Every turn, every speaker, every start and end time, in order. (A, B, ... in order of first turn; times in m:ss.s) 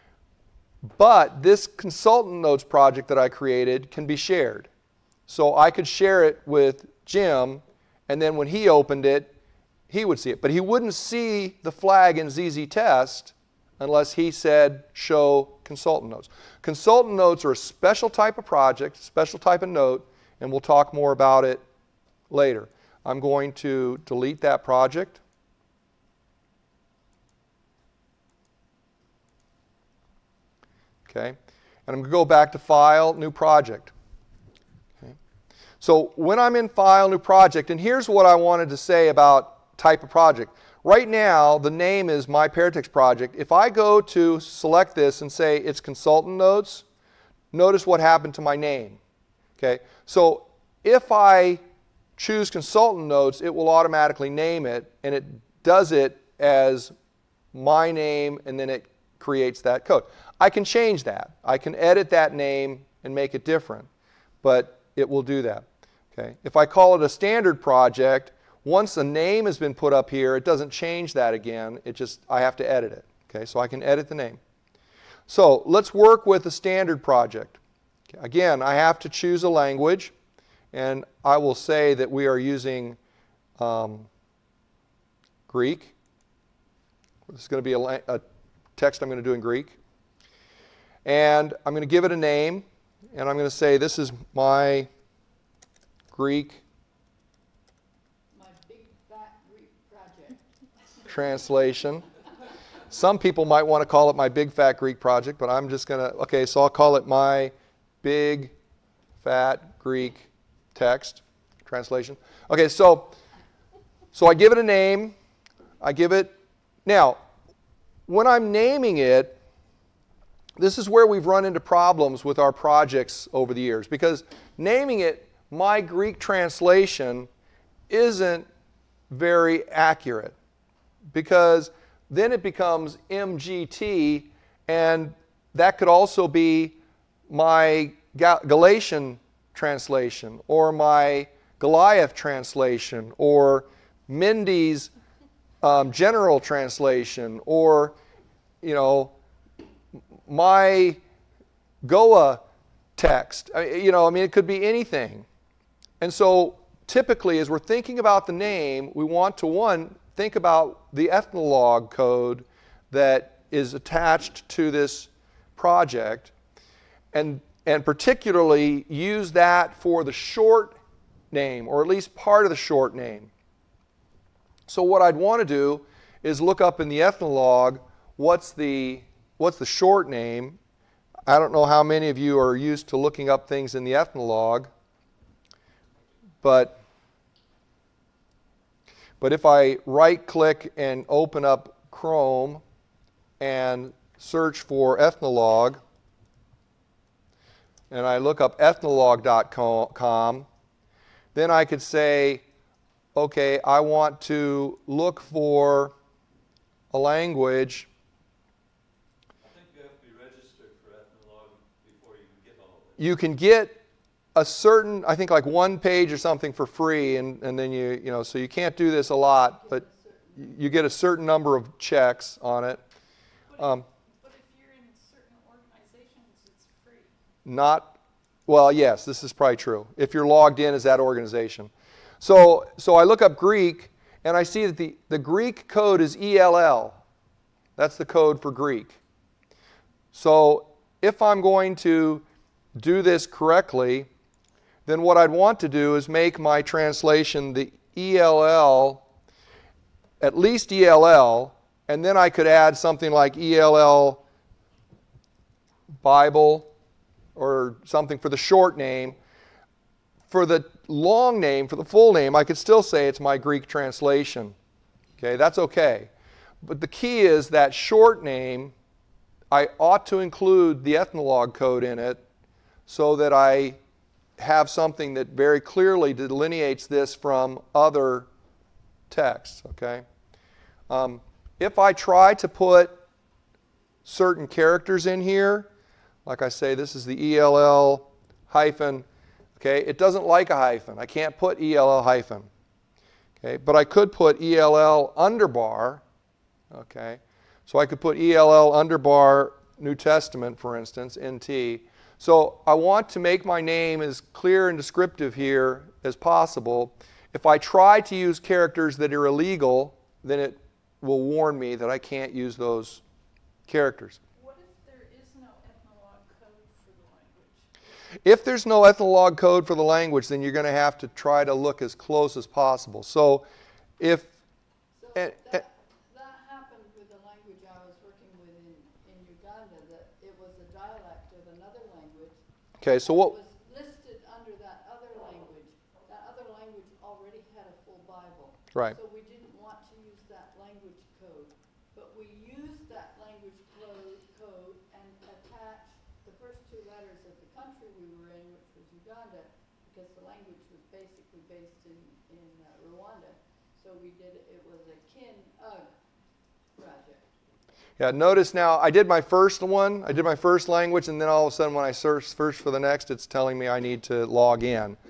0:00.8-0:04.7 A
0:05.3-0:09.3 A
0:09.9-0:21.6 A
0:22.3-0:25.2 A
0:31.1-0:33.9 A
0:35.8-0:46.8 A
0:47.5-0:49.0 A
0:49.6-0:51.6 A
0:52.2-0:56.9 A
0:57.5-1:03.9 A
1:04.4-1:14.4 A
1:15.3-1:17.6 A
1:18.1-1:20.1 A
1:20.7-1:23.0 A
1:23.6-1:24.1 A
1:25.5-1:25.9 A
1:27.3-1:28.2 A
1:28.8-1:29.8 A
1:31.0-1:34.9 A
1:36.1-1:36.6 A
1:38.3-1:40.5 B
1:41.1-1:42.0 A
1:42.9-1:48.5 A
1:49.2-1:53.1 A
1:54.1-1:55.1 A
1:55.8-1:56.3 A
1:56.8-1:57.2 A
1:58.1-1:59.4 A
2:00.6-2:07.3 A
2:07.9-2:08.4 A
2:09.1-2:10.3 A
2:11.1-2:16.8 A
2:17.3-2:24.9 A
2:25.6-2:27.9 A
2:28.6-2:29.1 A
2:30.3-2:31.0 A
2:31.8-2:32.4 A
2:33.0-2:35.2 A
2:36.0-2:46.3 A
2:47.1-2:50.8 A
2:51.3-2:53.3 A
2:54.7-3:00.6 A
3:01.3-3:04.7 A
3:06.4-3:06.8 A
3:09.2-3:12.6 A
3:13.4-3:15.8 A
3:17.9-3:20.5 A
3:21.3-3:22.4 A
3:23.1-3:25.9 A
3:26.9-3:27.9 A
3:29.4-3:33.0 C
3:33.0-3:33.8 A
3:34.3-3:39.8 A
3:39.1-3:40.6 B
3:40.4-3:42.8 A
3:43.5-3:47.1 D
3:43.6-3:43.8 A
3:47.4-3:57.0 A
3:57.8-3:59.0 A
4:00.1-4:02.2 A
4:02.8-4:04.1 A
4:04.8-4:09.0 A
4:10.2-4:14.2 A
4:16.0-4:16.7 A
4:17.3-4:19.2 A
4:20.3-4:24.5 A
4:25.2-4:26.1 A
4:26.6-4:28.7 A
4:29.5-4:32.2 A
4:32.9-4:33.8 A
4:34.4-4:38.3 A
4:39.1-4:40.0 A
4:40.9-4:43.0 A
4:44.0-4:45.7 A
4:46.2-4:49.0 A
4:49.6-4:52.5 A
4:53.4-4:56.0 A
4:56.7-5:13.0 A
5:13.7-5:14.2 A
5:14.3-5:17.7 D
5:18.2-5:23.4 A
5:24.0-5:24.3 A
5:24.9-5:32.4 B
5:25.2-5:25.6 A
5:32.8-5:33.3 A
5:32.9-5:55.9 B
5:56.8-5:57.3 B
5:58.0-6:05.0 A